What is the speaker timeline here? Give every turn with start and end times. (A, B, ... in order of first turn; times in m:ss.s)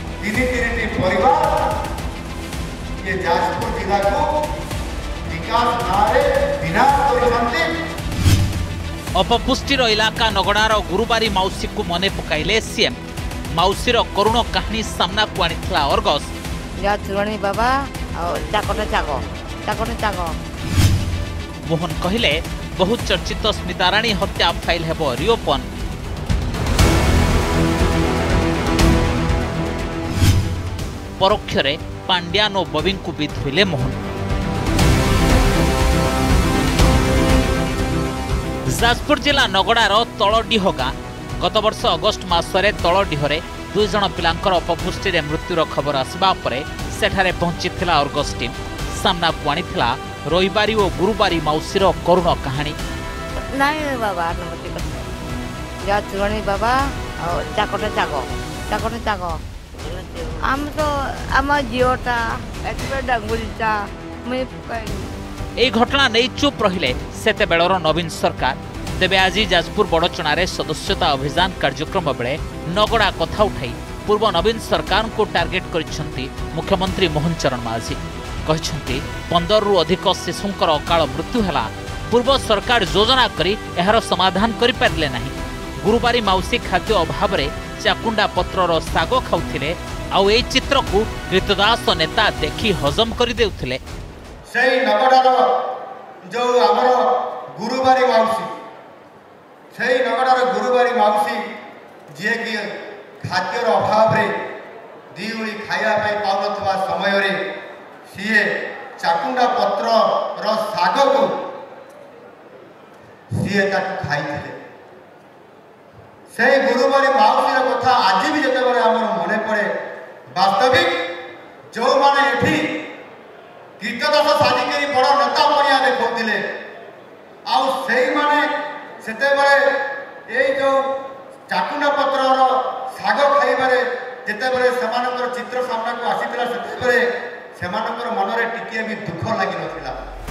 0:00.2-0:01.7 A
0:03.0-0:04.3 A
0:05.3-0:07.7 A
0:09.2-0:13.0 B
0:13.6-0:16.3 B
0:16.8-0:20.4 C
0:21.7-0:25.7 B
0:31.2-0:34.0 B
0:38.7-0:52.8 B
0:53.4-0:55.0 C
0:55.8-1:05.1 C
1:05.6-1:33.8 B
1:34.5-1:35.5 A
1:36.3-1:38.5 A
1:39.7-1:41.4 A
1:42.1-1:42.7 A
1:43.2-1:44.3 A
1:45.1-1:47.4 A
1:48.1-1:51.3 A
1:53.4-1:54.6 A
1:56.3-1:59.7 A
2:00.3-2:00.9 A
2:01.7-2:02.7 A
2:03.8-2:06.4 A
2:07.5-2:08.5 A
2:09.0-2:09.8 A
2:10.3-2:10.8 A
2:11.5-2:17.0 A
2:17.6-2:20.0 A